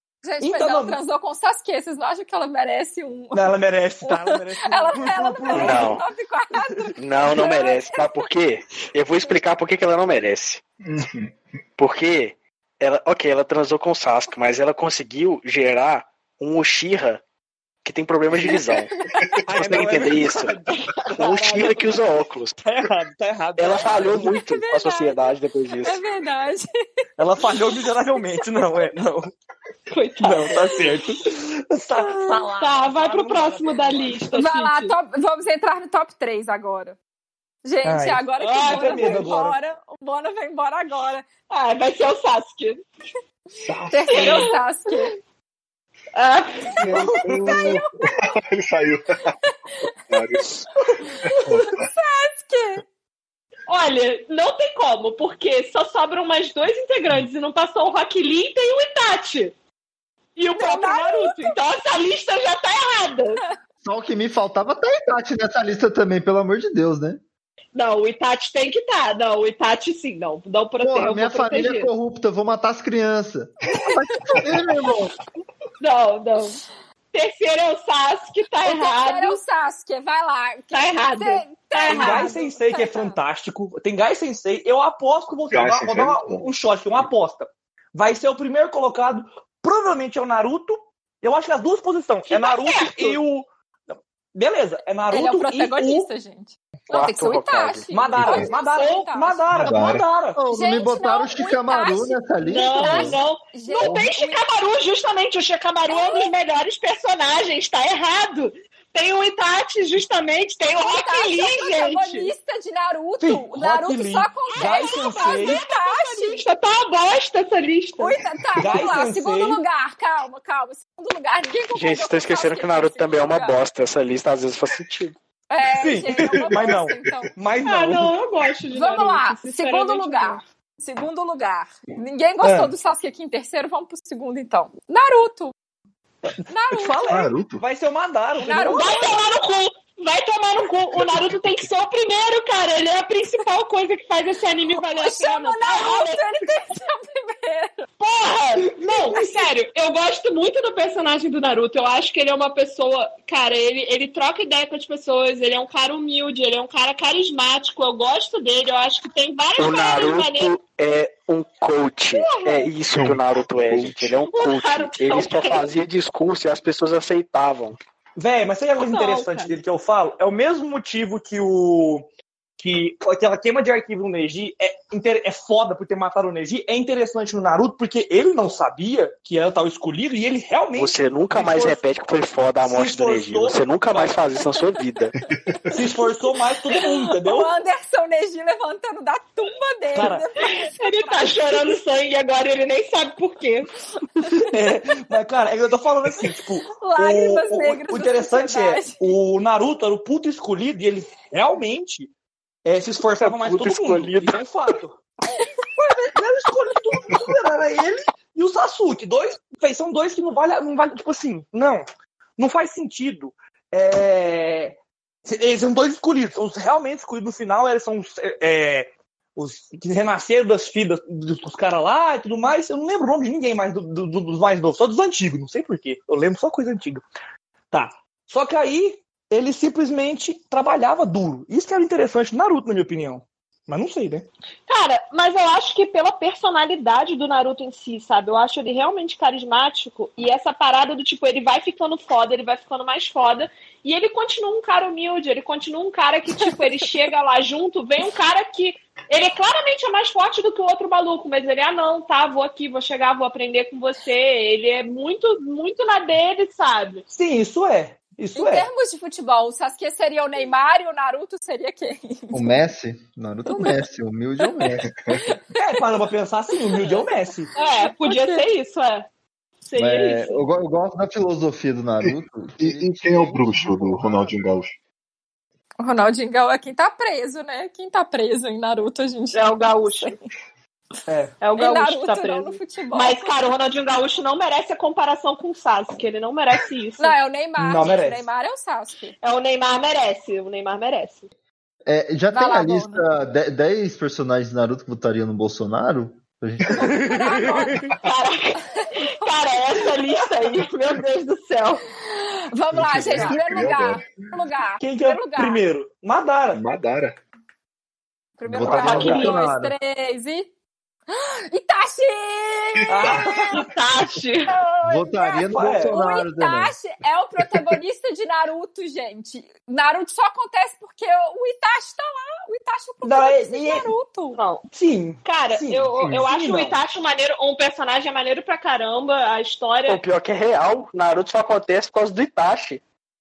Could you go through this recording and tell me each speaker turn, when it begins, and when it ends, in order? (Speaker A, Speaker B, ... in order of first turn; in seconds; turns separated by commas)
Speaker A: 0.2-8.3, Speaker B: 0.4-1.0, Speaker B: 3.3-6.0, Speaker C: 5.5-6.0, Speaker C: 7.0-10.6, Speaker D: 10.8-11.4, Speaker C: 11.8-17.2, Speaker C: 17.8-18.9, Speaker B: 19.4-21.6, Speaker C: 19.5-20.6, Speaker E: 20.8-21.9, Speaker C: 21.2-22.6, Speaker B: 22.6-24.3, Speaker C: 23.6-26.0, Speaker A: 24.1-26.7, Speaker B: 27.2-29.3, Speaker A: 27.5-28.4, Speaker E: 29.9-30.9, Speaker B: 30.2-34.4, Speaker E: 32.6-34.9, Speaker A: 34.3-37.0, Speaker A: 37.6-41.2, Speaker B: 37.8-39.6, Speaker E: 38.6-39.3, Speaker E: 41.5-42.9, Speaker D: 43.6-44.5, Speaker A: 43.9-45.1, Speaker E: 44.1-44.9, Speaker E: 46.1-47.0, Speaker D: 46.8-49.4, Speaker B: 46.9-47.6, Speaker A: 47.5-47.8, Speaker D: 50.0-50.7, Speaker A: 51.0-52.8, Speaker D: 51.2-51.8, Speaker E: 53.7-59.5, Speaker E: 60.4-63.4, Speaker A: 60.5-61.6, Speaker F: 63.8-67.2, Speaker E: 67.7-71.9, Speaker F: 70.8-75.1, Speaker E: 75.8-76.6, Speaker E: 77.1-79.4, Speaker A: 78.6-83.2, Speaker E: 80.7-82.3, Speaker B: 81.9-96.1, Speaker D: 85.5-87.1, Speaker E: 92.3-93.2, Speaker A: 95.1-99.4, Speaker C: 96.9-97.9, Speaker B: 97.9-100.4, Speaker D: 98.2-98.5, Speaker E: 98.7-99.1, Speaker D: 99.5-100.1, Speaker F: 100.3-103.2, Speaker A: 100.5-102.2, Speaker E: 102.4-112.3, Speaker A: 102.8-104.4, Speaker A: 105.9-106.3, Speaker A: 110.7-116.4, Speaker B: 113.2-115.6, Speaker E: 114.5-118.2, Speaker A: 118.0-123.6, Speaker B: 118.6-119.6, Speaker C: 121.7-125.1, Speaker A: 125.5-127.3, Speaker B: 125.7-128.1, Speaker D: 126.5-127.2, Speaker E: 127.6-130.4, Speaker A: 128.7-135.5, Speaker B: 132.4-132.7, Speaker A: 136.5-137.0, Speaker B: 136.7-139.1, Speaker D: 137.1-137.6, Speaker A: 138.4-139.1, Speaker E: 138.6-146.2, Speaker A: 144.9-147.9, Speaker E: 148.0-160.6, Speaker B: 148.8-149.2, Speaker C: 159.6-167.8, Speaker E: 162.1-162.7, Speaker D: 162.9-164.2, Speaker E: 164.3-165.7, Speaker B: 168.2-172.1, Speaker E: 168.9-169.6, Speaker B: 172.6-181.8, Speaker C: 180.8-185.1, Speaker B: 182.6-184.2, Speaker A: 185.2-186.2, Speaker B: 185.7-187.5, Speaker A: 186.7-191.6, Speaker B: 189.9-190.2, Speaker E: 190.5-193.7, Speaker B: 194.4-202.1, Speaker A: 196.7-199.2, Speaker B: 202.6-205.0, Speaker C: 203.0-204.4, Speaker A: 205.3-206.2, Speaker B: 206.1-211.9, Speaker B: 212.4-227.1, Speaker B: 227.7-234.3, Speaker E: 234.7-257.1, Speaker A: 246.4-246.9, Speaker B: 257.1-258.7, Speaker A: 258.4-262.6, Speaker F: 262.3-264.9, Speaker A: 263.5-263.8, Speaker A: 264.4-265.8, Speaker D: 264.9-265.2, Speaker B: 265.6-267.5, Speaker A: 266.6-267.1, Speaker E: 267.6-269.1, Speaker A: 267.6-268.4, Speaker E: 269.6-270.4, Speaker F: 269.8-274.3, Speaker D: 272.1-274.7, Speaker A: 275.8-280.2, Speaker E: 279.3-280.2, Speaker B: 281.1-281.4, Speaker E: 281.4-287.1, Speaker A: 281.6-283.4, Speaker A: 287.0-289.1, Speaker B: 287.6-288.2, Speaker E: 289.2-291.3, Speaker F: 291.9-296.9, Speaker A: 292.3-293.1, Speaker A: 296.8-297.8, Speaker B: 296.9-297.9, Speaker E: 298.0-301.8, Speaker A: 298.8-299.3, Speaker A: 302.1-305.6, Speaker D: 302.7-304.1, Speaker B: 304.8-306.6, Speaker D: 306.5-307.2, Speaker A: 308.4-310.5, Speaker F: 308.4-309.7, Speaker C: 308.6-309.3, Speaker E: 308.8-309.4, Speaker A: 311.1-313.4, Speaker B: 312.9-313.6, Speaker D: 312.9-313.2, Speaker E: 313.5-314.5, Speaker A: 314.5-324.4, Speaker F: 314.9-316.7, Speaker B: 315.5-316.0, Speaker B: 323.0-323.9, Speaker E: 324.4-324.6, Speaker B: 324.7-326.8, Speaker E: 325.2-330.0, Speaker C: 329.9-332.8